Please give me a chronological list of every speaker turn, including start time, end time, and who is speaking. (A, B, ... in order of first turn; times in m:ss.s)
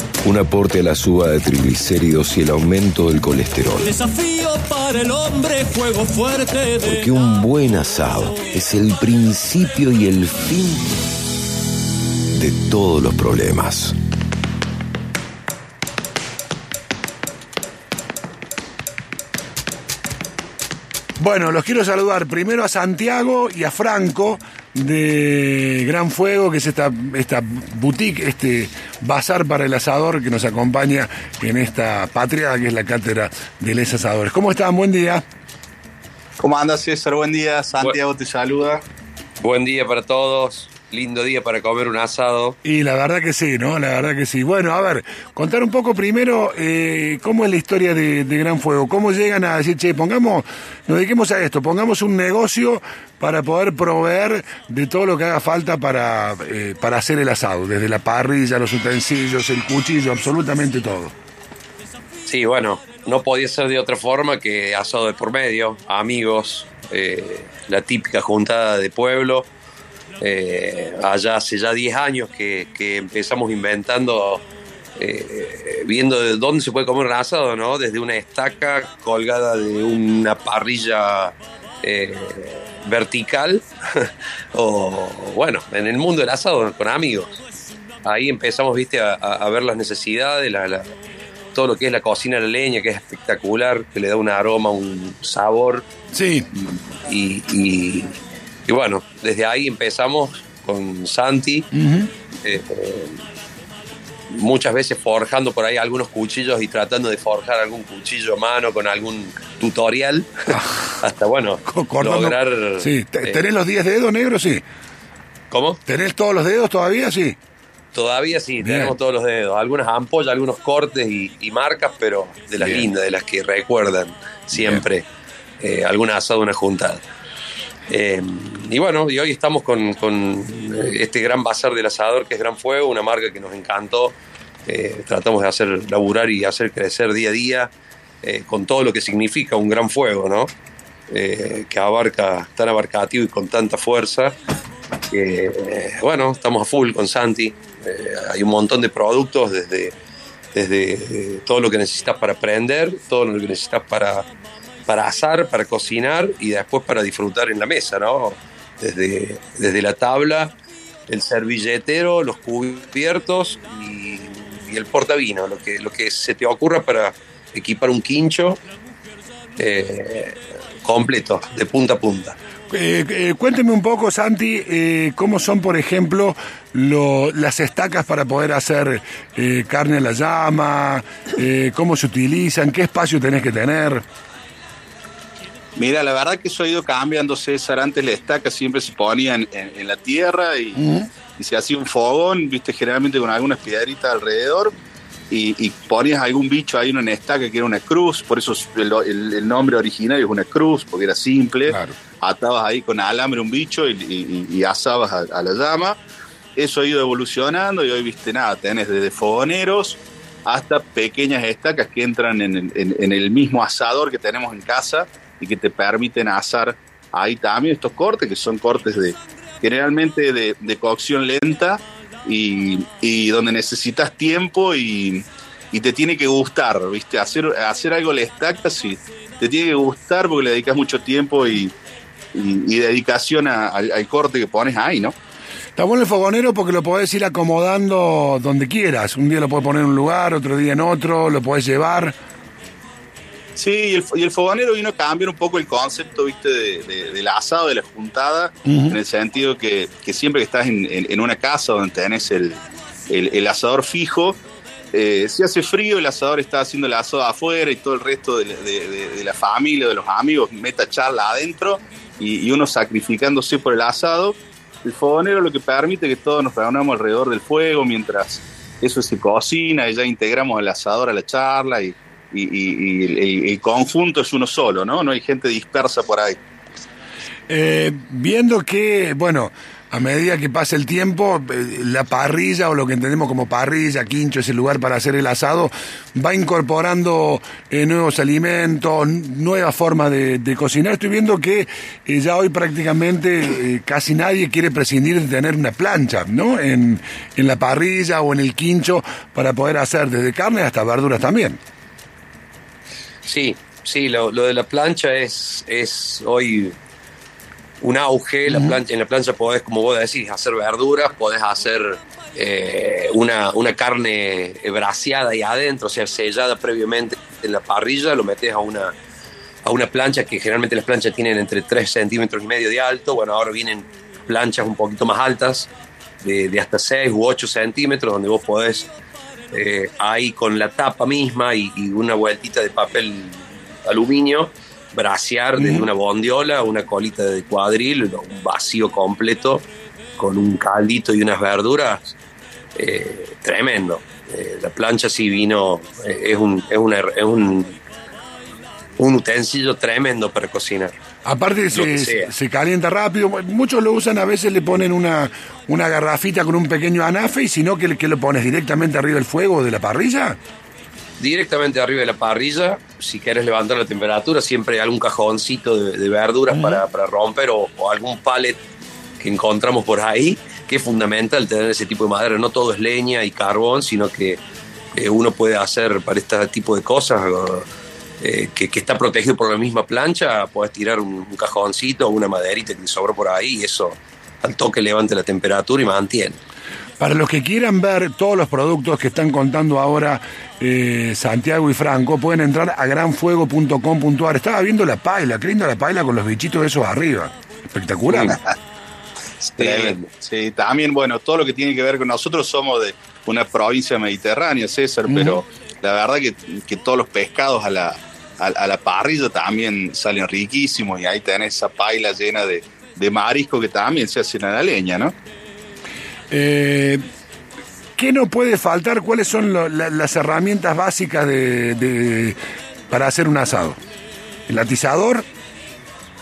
0:00.2-0:04.0 A
0:03.9-0:06.9 B
0:06.8-0:11.0 A
0:12.3-0:14.0 A
0:21.2-0:35.2 C
0:36.4-0:38.8 D
0:39.4-0:42.6 E
0:42.6-1:01.1 C
1:02.2-1:09.5 E
1:10.2-1:14.4 E
1:15.0-1:27.4 E
1:28.0-1:30.9 E
1:31.5-1:35.8 E
1:36.1-1:36.5 C
1:36.6-1:38.1 E
1:38.7-1:41.7 E
1:41.7-1:42.1 C
1:42.4-1:43.1 E
1:44.3-1:53.4 E
1:50.5-1:50.8 C
1:51.6-1:54.6 C
1:55.5-1:55.8 E
1:55.9-1:57.4 C
1:57.9-2:05.0 E
1:58.6-1:58.9 C
2:02.6-2:02.9 C
2:04.5-2:04.8 C
2:05.6-2:07.0 E
2:07.9-2:17.7 E
2:18.2-2:20.5 E
2:21.1-2:24.3 E
2:25.1-2:29.9 E
2:30.5-2:34.3 E
2:34.9-2:40.5 E
2:41.1-2:48.6 E
2:49.6-2:52.4 E
2:52.7-3:04.0 C
3:05.8-3:10.8 D
3:10.8-3:11.1 C
3:11.4-3:14.7 D
3:15.3-3:26.0 D
3:21.7-3:22.0 C
3:26.6-3:51.7 D
3:52.3-3:55.1 D
3:55.8-4:02.1 C
4:03.6-4:12.6 D
4:08.6-4:09.0 C
4:13.1-4:14.4 D
4:14.9-4:36.4 D
4:37.5-5:01.6 C
5:03.2-5:06.7 E
5:07.8-5:18.9 E
5:08.5-5:08.8 C
5:19.6-5:25.7 E
5:26.2-5:28.9 E
5:29.5-5:39.6 E
5:35.6-5:35.9 C
5:40.2-5:42.1 E
5:42.8-5:47.8 E
5:49.0-5:51.0 E
5:51.2-6:00.4 C
5:51.7-5:52.3 E
6:01.2-6:08.6 E
6:06.5-6:06.8 C
6:09.2-6:14.4 E
6:14.9-6:17.6 E
6:18.2-6:26.4 E
6:27.0-6:38.4 C
6:38.1-6:38.5 D
6:39.5-6:40.0 E
6:39.6-6:55.1 D
6:45.1-6:45.4 C
6:56.3-6:57.0 C
6:58.0-7:02.4 C
7:02.9-7:03.8 C
7:04.5-7:05.2 C